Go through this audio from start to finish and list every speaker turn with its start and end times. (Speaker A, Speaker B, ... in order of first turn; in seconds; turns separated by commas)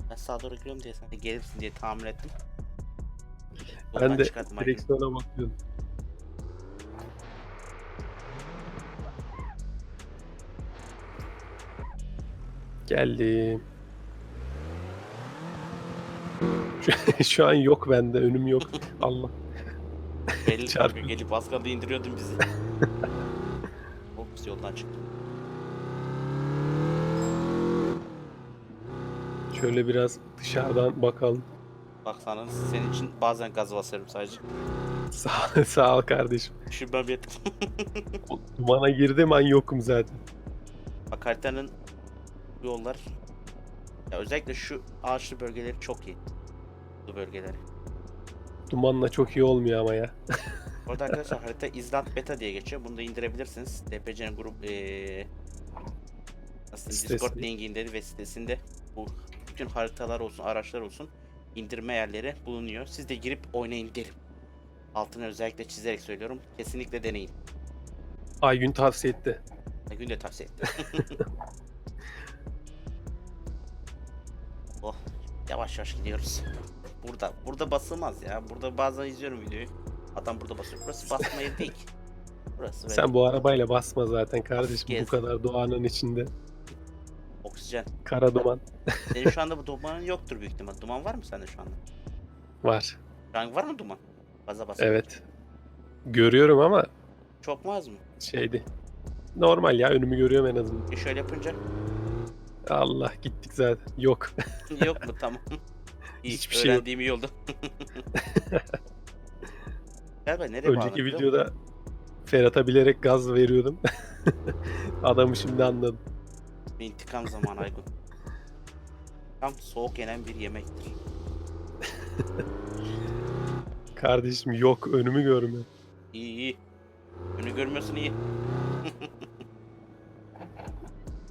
Speaker A: 0.1-2.3, Speaker A: 3.9-4.8, Speaker B: 3.9-5.5, Speaker B: 12.9-13.6, Speaker B: 16.8-19.3, Speaker A: 20.4-22.4, Speaker B: 20.4-21.1, Speaker A: 24.1-25.1, Speaker B: 29.5-31.4, Speaker A: 32.0-34.4, Speaker B: 35.1-36.5, Speaker A: 36.7-38.2, Speaker B: 38.3-40.2, Speaker A: 41.1-41.7, Speaker A: 42.6-43.0, Speaker A: 44.1-46.2, Speaker A: 47.0-47.6, Speaker B: 48.7-50.2, Speaker A: 50.9-55.3, Speaker A: 56.7-64.1, Speaker B: 56.9-57.5, Speaker A: 64.9-67.3, Speaker B: 68.4-69.4, Speaker A: 69.9-71.2, Speaker A: 74.8-76.4, Speaker A: 77.0-81.9, Speaker A: 82.6-83.1, Speaker B: 82.9-86.3, Speaker A: 84.6-85.2, Speaker A: 87.4-87.9, Speaker B: 88.0-89.3, Speaker A: 89.1-91.8, Speaker B: 92.6-93.0, Speaker A: 93.3-95.1, Speaker B: 94.8-95.2, Speaker B: 96.0-96.9, Speaker A: 97.4-98.0, Speaker B: 98.2-98.6, Speaker B: 99.3-100.9, Speaker A: 100.9-101.6, Speaker B: 102.7-104.3, Speaker A: 104.7-105.6, Speaker A: 106.2-108.0, Speaker B: 106.2-106.8, Speaker B: 108.1-108.7, Speaker A: 110.2-111.3, Speaker B: 110.6-111.5, Speaker B: 112.2-116.0, Speaker A: 116.8-117.9, Speaker A: 119.4-120.9, Speaker B: 124.0-125.7, Speaker A: 126.1-126.6, Speaker A: 127.4-128.2, Speaker A: 128.8-129.3